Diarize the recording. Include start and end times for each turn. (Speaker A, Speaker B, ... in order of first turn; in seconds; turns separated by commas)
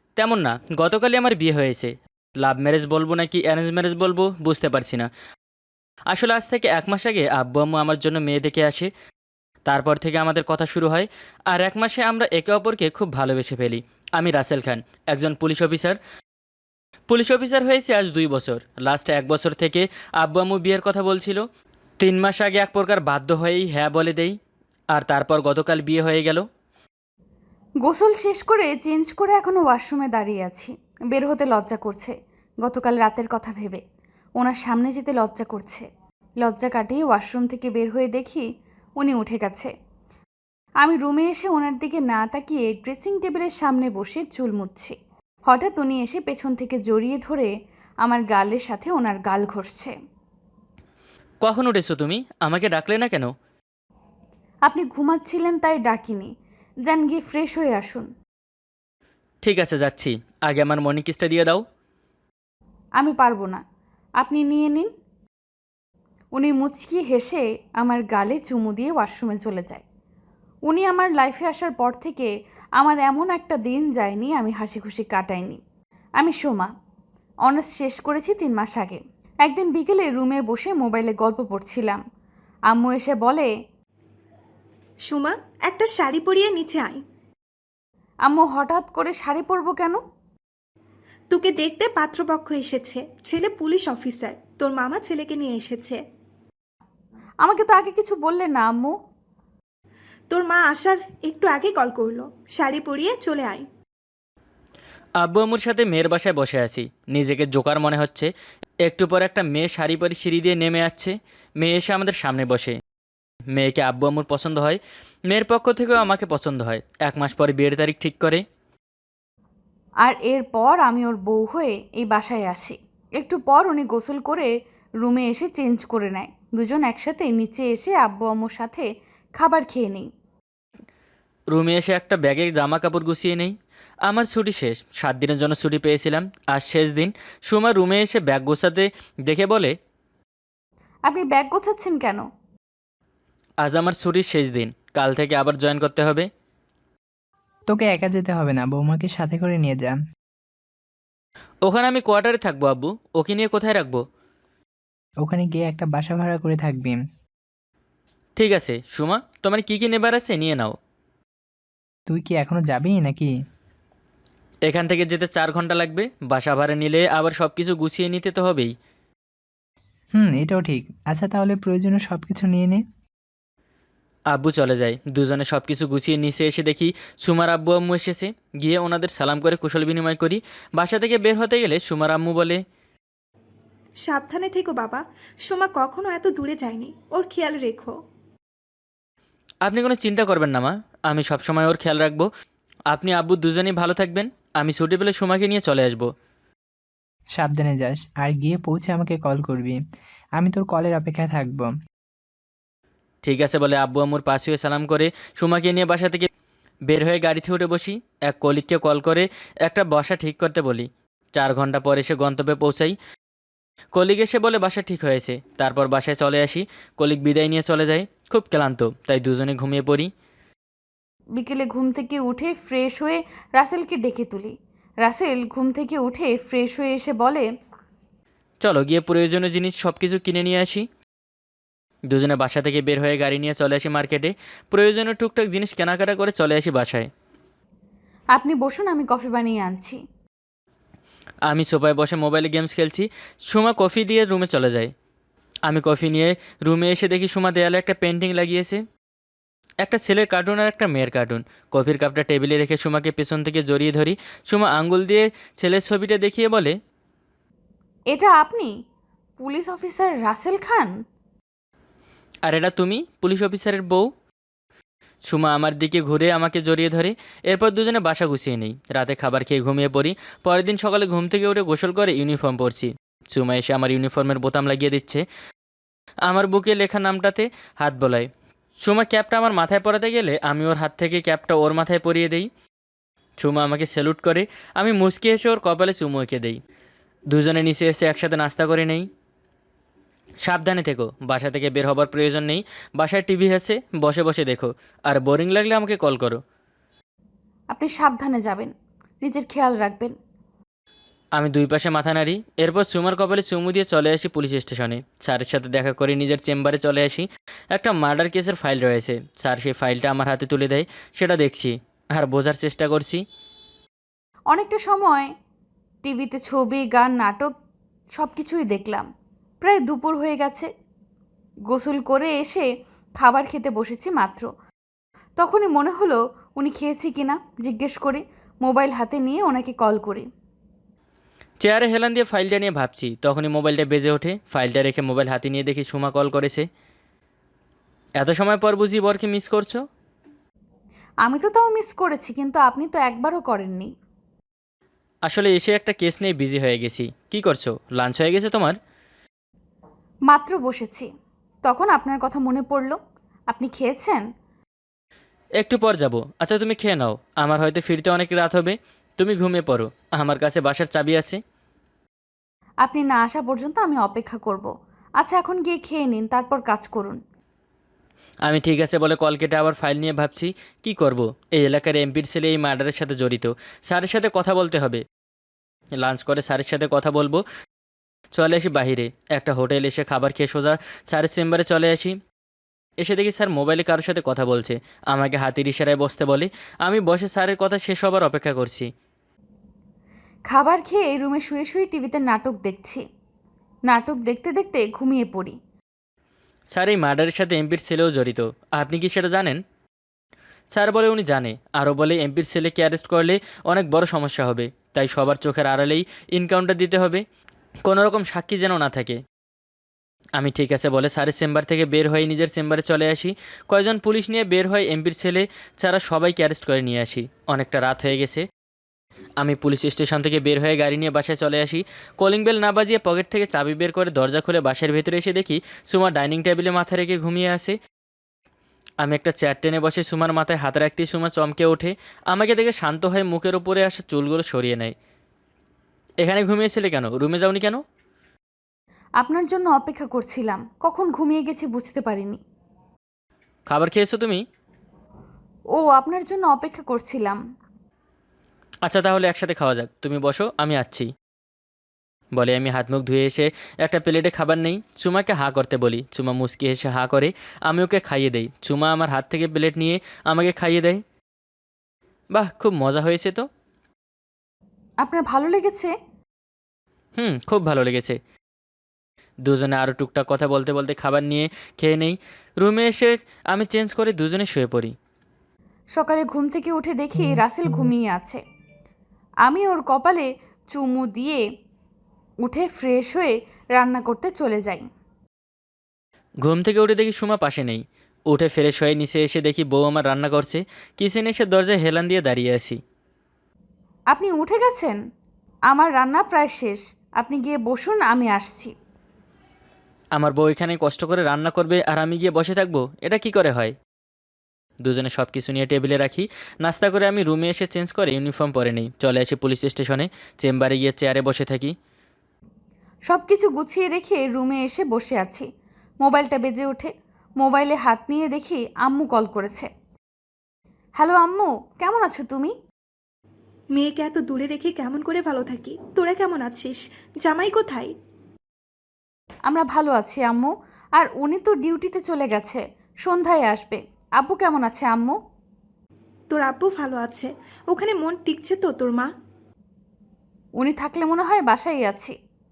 Speaker A: 0.2-5.1, Speaker A: 6.1-8.9, Speaker A: 9.7-16.0, Speaker A: 17.1-21.4, Speaker A: 22.0-24.4, Speaker A: 24.9-26.4, Speaker B: 27.8-32.1, Speaker B: 32.6-33.8, Speaker B: 34.4-35.8, Speaker B: 36.4-38.4, Speaker B: 39.0-39.7, Speaker B: 40.8-44.9, Speaker B: 45.5-47.5, Speaker B: 48.0-49.9, Speaker A: 51.4-53.3, Speaker B: 54.7-56.3, Speaker B: 56.9-58.1, Speaker A: 59.4-61.6, Speaker B: 63.0-63.6, Speaker B: 64.2-64.9, Speaker B: 66.3-69.8, Speaker B: 70.7-72.3, Speaker B: 72.8-75.6, Speaker B: 76.2-76.7, Speaker B: 77.5-82.0, Speaker B: 82.7-83.5, Speaker C: 85.1-87.0, Speaker B: 88.3-90.0, Speaker C: 91.3-96.0, Speaker B: 97.4-98.9, Speaker C: 100.3-103.7, Speaker A: 105.2-108.3, Speaker A: 108.8-112.8, Speaker A: 113.5-114.8, Speaker A: 115.3-118.4, Speaker B: 120.0-124.5, Speaker B: 125.0-128.8, Speaker B: 129.4-130.1, Speaker A: 131.5-133.5, Speaker A: 134.1-139.7, Speaker B: 141.1-142.2, Speaker A: 143.6-146.3, Speaker D: 147.7-149.9, Speaker A: 151.7-154.0, Speaker D: 155.2-157.0, Speaker A: 158.4-160.8, Speaker D: 162.1-163.3, Speaker A: 164.7-168.7, Speaker D: 170.1-172.8, Speaker A: 174.3-182.6, Speaker C: 184.0-188.0, Speaker A: 189.6-192.3, Speaker A: 192.9-196.1, Speaker D: 197.3-199.8, Speaker D: 200.4-201.7, Speaker A: 203.2-206.3, Speaker A: 206.9-212.9, Speaker A: 213.9-220.1, Speaker B: 221.4-227.5, Speaker A: 228.6-230.8, Speaker A: 232.1-237.1, Speaker B: 238.3-240.0, Speaker A: 241.5-244.9, Speaker A: 245.7-248.8, Speaker A: 249.8-256.7, Speaker B: 258.1-258.7, Speaker B: 259.4-260.9, Speaker A: 262.4-264.1, Speaker A: 265.3-275.2, Speaker A: 276.3-278.3, Speaker A: 278.8-282.5, Speaker A: 283.4-286.6, Speaker A: 287.3-289.1, Speaker A: 290.4-296.4, Speaker B: 297.7-298.7, Speaker B: 299.2-300.1, Speaker A: 301.4-313.2, Speaker B: 314.5-315.3, Speaker B: 316.0-317.5, Speaker B: 318.1-319.1, Speaker B: 319.6-320.7, Speaker B: 321.7-322.6, Speaker B: 323.2-324.5, Speaker B: 325.4-330.2, Speaker A: 331.6-336.6, Speaker A: 338.2-339.8, Speaker B: 341.2-343.9, Speaker A: 345.3-348.8, Speaker B: 350.3-351.1, Speaker B: 351.6-353.0, Speaker B: 353.5-354.2, Speaker A: 355.6-361.4, Speaker B: 362.8-364.7, Speaker B: 365.2-367.2, Speaker A: 368.4-375.0, Speaker A: 376.0-377.4, Speaker A: 378.3-382.1, Speaker A: 383.0-388.9, Speaker B: 390.5-393.0, Speaker B: 393.9-395.6, Speaker A: 396.7-399.6, Speaker A: 400.7-407.2, Speaker A: 407.9-409.2, Speaker A: 410.4-418.4, Speaker A: 419.4-427.8, Speaker A: 429.0-434.9, Speaker A: 436.2-437.8, Speaker B: 439.2-442.4, Speaker A: 443.7-444.4, Speaker B: 445.7-447.4, Speaker A: 448.8-451.1, Speaker A: 452.4-461.0, Speaker A: 462.3-463.4, Speaker B: 465.0-465.9, Speaker A: 467.2-468.2, Speaker A: 469.4-474.9, Speaker B: 476.0-478.4, Speaker B: 479.4-481.4, Speaker B: 482.4-484.8, Speaker A: 486.4-492.8, Speaker B: 494.1-495.0, Speaker B: 495.7-498.7, Speaker A: 500.1-503.7, Speaker A: 504.8-511.7, Speaker B: 513.1-515.5, Speaker B: 516.0-519.7, Speaker B: 521.0-522.5, Speaker C: 523.7-527.9, Speaker B: 529.5-535.1, Speaker C: 536.3-539.1, Speaker B: 540.6-542.1